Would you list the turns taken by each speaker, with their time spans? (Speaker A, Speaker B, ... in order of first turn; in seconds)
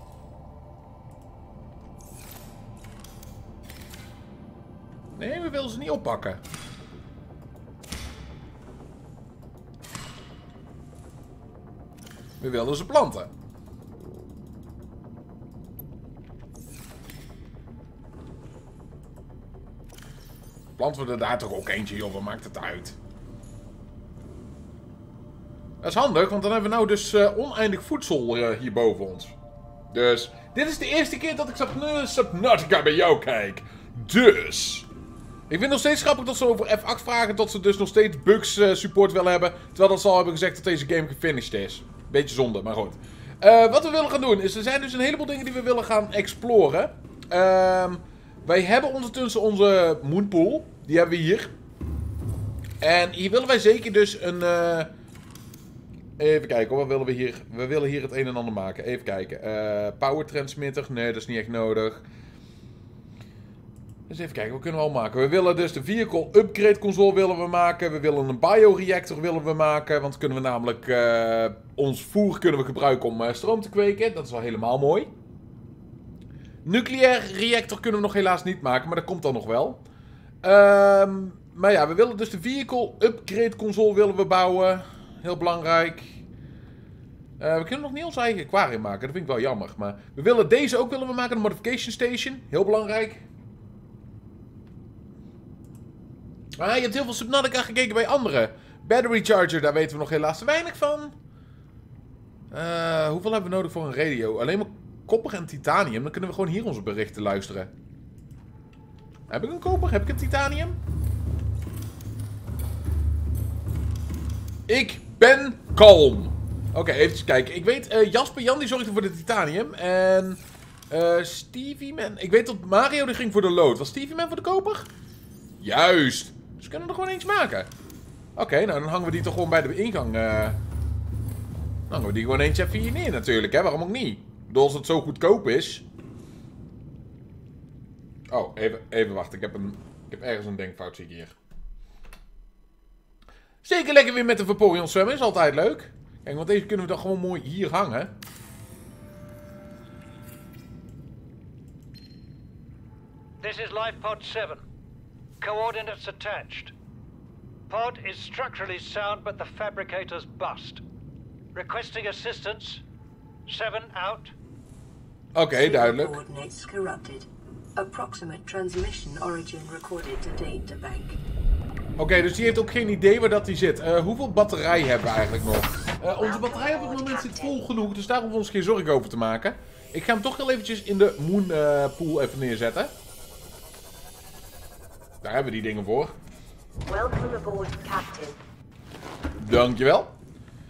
Speaker A: 5.2-6.4, 12.4-13.3, 20.8-23.0, 25.8-29.4, 29.9-34.9, 35.5-51.5, 52.8-54.9, 56.2-62.1, 64.1-75.1, 76.6-79.8, 80.4-86.2, 87.4-93.2, 96.6-101.1, 102.5-107.7, 109.3-110.8, 114.7-124.9, 125.6-127.7, 128.4-130.6, 131.9-135.8, 138.3-141.3, 143.6-148.2, 165.3-166.2, 172.0-182.9, 185.2-186.2, 189.4-190.1
Speaker B: 153.4-154.6, 155.4-156.7, 157.7-160.8, 161.5-162.8, 163.5-164.3
Speaker C: 165.6-171.2
Speaker D: 176.2-177.7, 186.9-188.4